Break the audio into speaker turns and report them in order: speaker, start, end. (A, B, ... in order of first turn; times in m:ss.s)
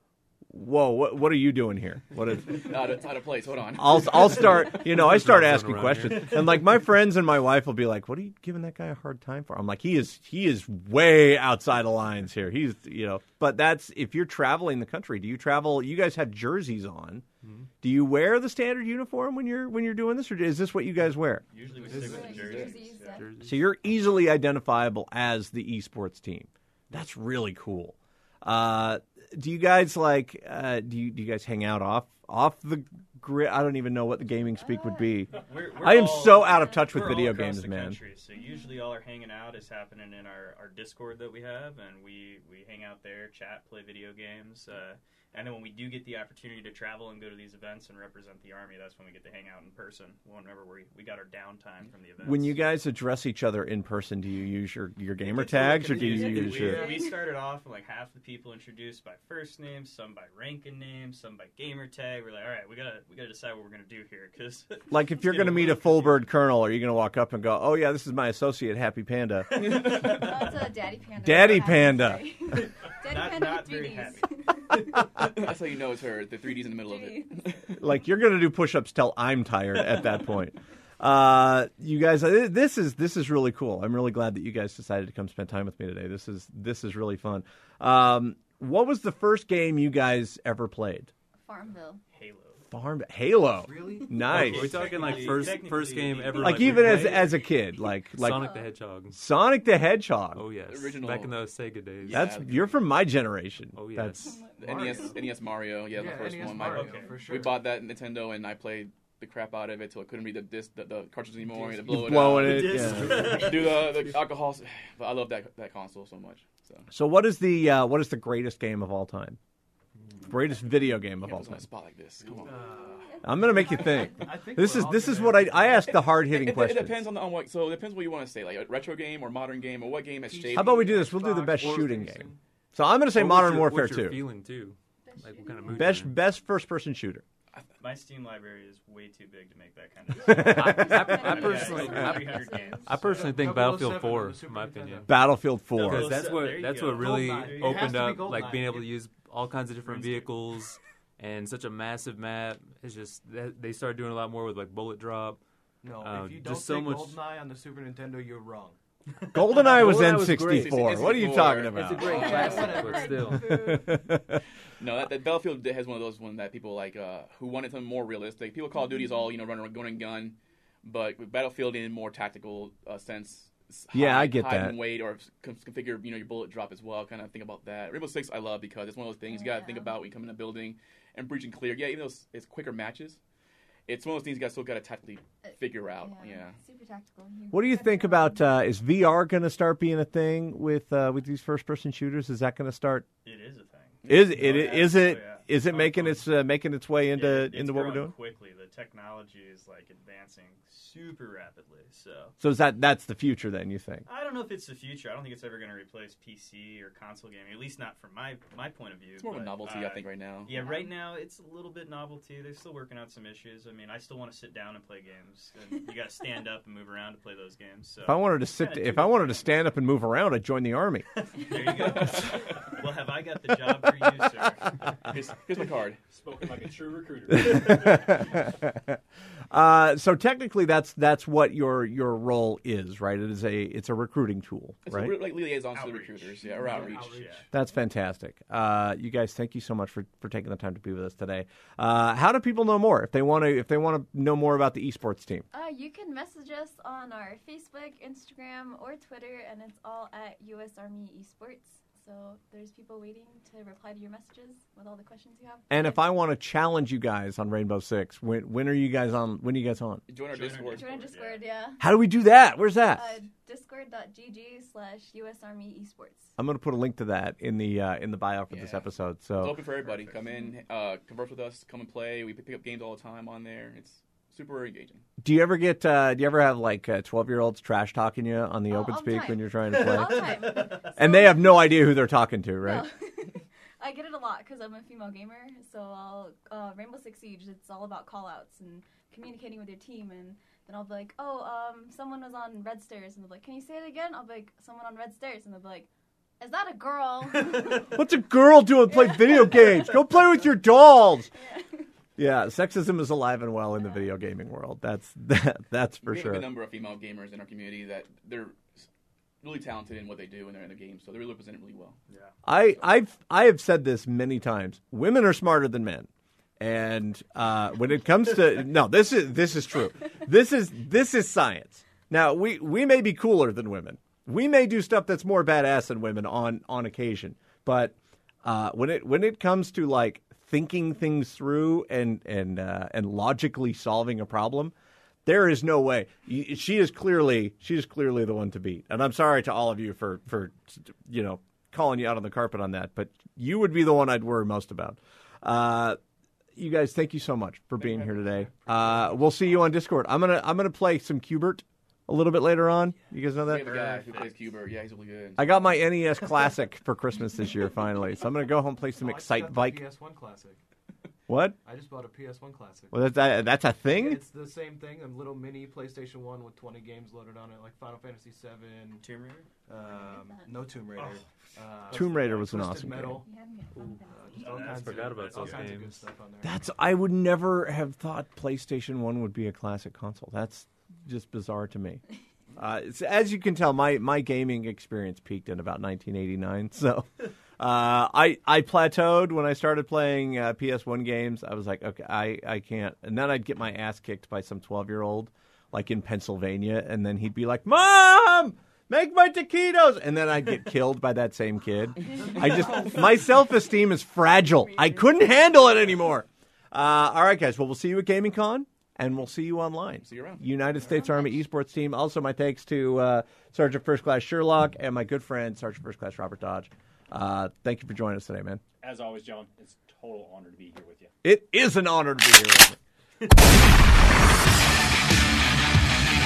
0:00.5-0:02.9 A
0:02.4-0:04.7 B
0:03.8-0:17.2 A
0:04.7-0:06.4 C
0:17.4-0:17.7 C
0:17.8-0:21.4 A
0:21.5-0:23.2 D
0:21.8-0:23.4 E
0:21.9-0:22.6 F
0:22.4-0:22.7 B
0:23.2-0:23.6 C
0:23.4-0:38.0 A
0:34.5-0:35.2 E
0:35.4-0:52.6 D
0:36.5-0:36.9 E
0:38.4-0:38.8 E
0:52.2-0:56.9 A
0:55.2-1:06.2 D
0:56.1-0:57.2 E
1:04.9-1:09.8 A
1:09.7-1:15.0 E
1:11.2-1:12.2 A
1:13.0-1:14.3 D
1:15.2-1:17.7 B
1:16.8-1:17.3 E
1:17.8-1:31.1 A
1:31.4-1:32.0 E
1:32.1-1:32.6 D
1:32.7-1:34.9 A
1:33.6-1:34.2 F
1:34.2-1:37.2 D
1:34.2-1:37.4 C
1:36.4-1:38.5 A
1:38.1-1:39.2 C
1:38.3-1:38.7 E
1:39.1-1:40.4 A
1:40.3-1:42.4 C
1:40.6-1:41.4 B
1:42.0-1:42.8 B
1:42.1-1:44.3 A
1:43.8-1:44.3 C
1:44.1-1:45.2 E
1:44.6-1:56.9 B
1:44.6-1:45.1 F
1:45.9-1:47.6 F
1:46.5-1:47.2 D
1:51.8-1:53.5 A
1:52.2-1:53.9 D
1:56.9-1:59.4 A
2:00.2-2:01.6 A
2:01.2-2:02.6 B
2:02.4-2:06.0 F
2:02.6-2:04.4 E
2:03.2-2:07.1 A
2:05.9-2:11.0 B
2:10.2-2:12.4 F
2:10.5-2:14.2 A
2:13.1-2:16.1 C
2:15.0-2:16.0 E
2:15.7-2:17.2 A
2:17.8-2:23.3 D
2:20.2-2:21.0 A
2:20.3-2:25.1 C
2:20.6-2:22.9 E
2:21.8-2:22.2 F
2:23.0-2:25.1 F
2:25.1-2:26.2 A
2:25.8-2:28.0 D
2:25.8-2:35.4 C
2:27.0-2:29.0 F
2:29.8-2:30.3 D
2:35.8-2:38.8 F
2:36.0-2:37.2 C
2:39.3-2:43.7 C
2:39.3-2:42.2 A
2:40.5-2:42.0 B
2:42.0-2:44.0 E
2:42.0-2:43.5 F
2:43.5-2:44.4 A
2:44.8-3:03.2 B
2:53.9-2:54.8 A
2:59.3-3:00.0 E
3:03.9-3:06.6 B
3:05.4-3:08.6 E
3:07.5-3:13.0 A
3:13.2-3:16.3 D
3:14.0-3:14.5 B
3:14.0-3:18.1 A
3:17.1-3:22.3 D
3:22.4-3:24.0 A
3:24.0-3:39.4 D
3:29.2-3:30.5 B
3:30.5-3:30.9 E
3:38.0-3:41.0 A
3:41.2-3:44.7 D
3:45.1-3:46.0 B
3:46.1-3:48.1 G
3:47.3-3:49.0 A
3:49.5-3:55.1 A
3:54.8-3:57.2 B
3:55.7-3:57.5 D
3:56.6-3:57.5 F
3:57.5-4:05.5 A
4:05.5-4:16.1 E
4:15.7-4:20.0 A
4:20.1-4:21.1 B
4:20.3-4:21.4 D
4:20.5-4:21.8 E
4:21.8-4:23.2 A
4:22.9-4:26.3 E
4:26.4-4:29.6 A
4:28.5-4:35.0 B
4:35.2-4:42.9 A
4:38.7-4:41.8 E
4:42.6-4:55.9 E
4:56.4-4:57.9 E
4:57.9-5:01.3 A
4:58.9-5:00.0 E
5:01.3-5:01.8 E
5:02.2-5:06.5 A
5:06.0-5:08.9 B
5:09.4-5:12.0 B
5:12.1-5:12.3 D
5:12.4-5:34.7 A
5:35.2-5:46.0 A
5:46.6-5:54.0 A
5:47.8-5:49.3 F
5:53.4-5:55.5 B
5:53.5-5:54.4 D
5:55.4-5:59.8 A
5:59.0-6:00.6 F
6:01.3-6:01.6 A
6:01.6-6:03.0 F
6:02.9-6:04.2 A
6:03.9-6:09.0 F
6:09.0-6:09.5 D
6:09.7-6:13.3 F
6:09.9-6:10.6 E
6:11.0-6:11.2 D
6:11.9-6:13.2 A
6:13.2-6:14.4 E
6:13.8-6:16.0 C
6:14.1-6:16.6 F
6:14.4-6:15.7 D
6:16.4-6:22.0 A
6:22.6-6:58.6 A
6:50.0-6:50.4 B
6:58.8-7:01.1 G
7:01.2-7:02.8 A